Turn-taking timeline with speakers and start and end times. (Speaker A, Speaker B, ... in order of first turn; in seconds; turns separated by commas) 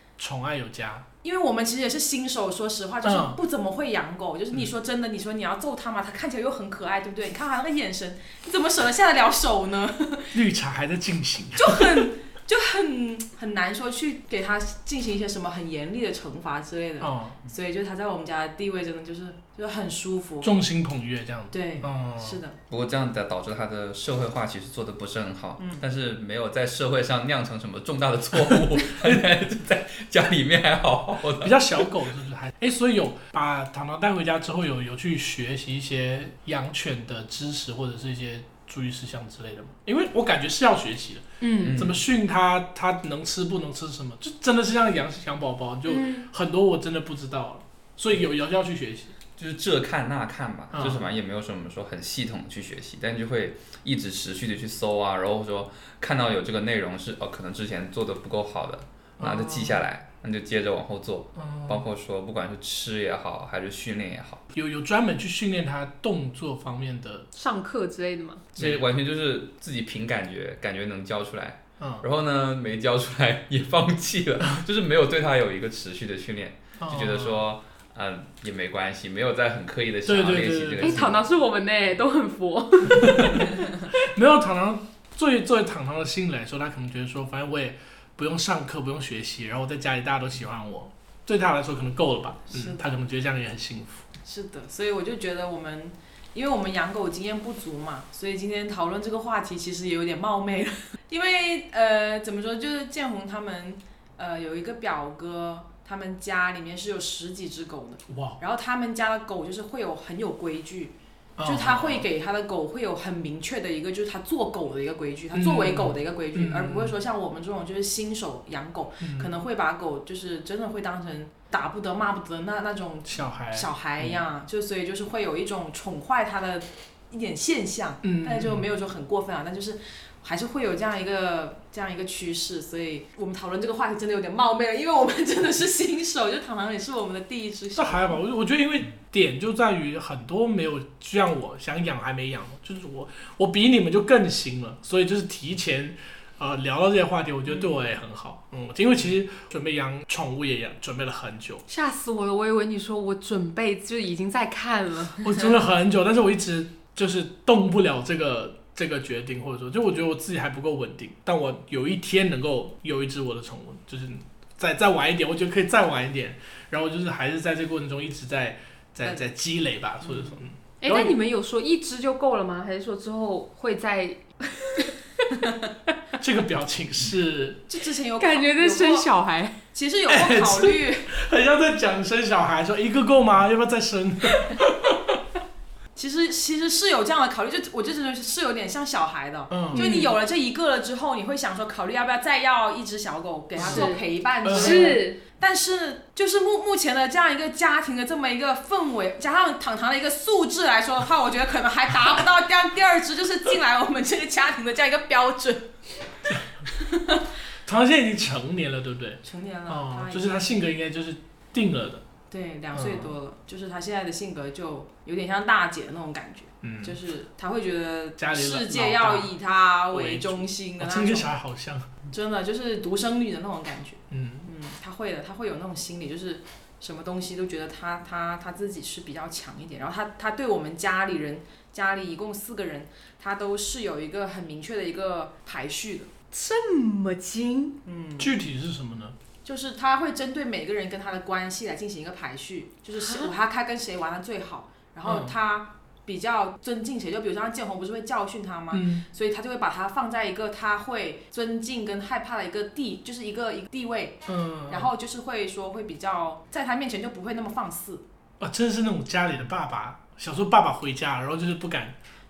Speaker A: 0.2-1.0, Speaker B: 1.2-10.4, Speaker A: 3.0-3.4, Speaker A: 10.3-12.1, Speaker B: 11.6-20.5, Speaker A: 17.0-17.4, Speaker A: 20.4-22.4, Speaker B: 21.5-22.6, Speaker C: 22.7-31.9, Speaker B: 25.6-25.8, Speaker A: 31.4-49.1, Speaker D: 41.4-41.8, Speaker C: 41.6-42.0, Speaker D: 45.9-46.3, Speaker C: 49.4-64.5, Speaker A: 50.7-51.0, Speaker A: 59.2-59.8, Speaker A: 61.4-61.8, Speaker A: 64.5-67.3, Speaker D: 67.3-68.5, Speaker A: 68.5-68.9, Speaker C: 68.5-81.2, Speaker A: 71.8-72.0, Speaker A: 76.8-77.4, Speaker A: 80.0-81.0, Speaker D: 80.8-83.9, Speaker A: 82.9-94.0, Speaker B: 92.5-92.8, Speaker B: 94.2-110.9, Speaker A: 108.1-108.4, Speaker A: 111.4-112.0, Speaker B: 111.4-138.2, Speaker A: 115.3-116.9, Speaker A: 119.0-119.3, Speaker A: 123.0-124.2, Speaker A: 128.0-128.7, Speaker A: 137.7-151.6, Speaker D: 151.7-155.5, Speaker A: 155.2-171.2, Speaker B: 170.0-170.4, Speaker D: 170.8-175.5, Speaker A: 176.2-177.7, Speaker B: 177.7-179.1, Speaker D: 178.2-179.6, Speaker B: 179.7-181.1, Speaker A: 180.1-185.2, Speaker B: 185.9-205.7, Speaker A: 189.5-189.8, Speaker D: 189.7-190.2, Speaker A: 193.6-193.9, Speaker D: 193.6-195.2, Speaker A: 194.4-195.0, Speaker A: 206.3-206.6, Speaker B: 206.7-207.3, Speaker A: 207.6-212.0, Speaker B: 209.2-210.5, Speaker B: 212.3-221.3, Speaker A: 212.7-213.1, Speaker A: 216.6-217.0, Speaker A: 218.2-219.3, Speaker A: 219.9-221.9, Speaker B: 222.1-236.1, Speaker A: 224.1-224.5, Speaker D: 236.3-237.8, Speaker B: 237.8-238.3, Speaker A: 238.2-239.2, Speaker B: 239.4-258.0, Speaker D: 243.0-243.3, Speaker A: 245.0-245.3, Speaker A: 248.7-249.1, Speaker A: 254.3-254.9, Speaker A: 258.4-261.9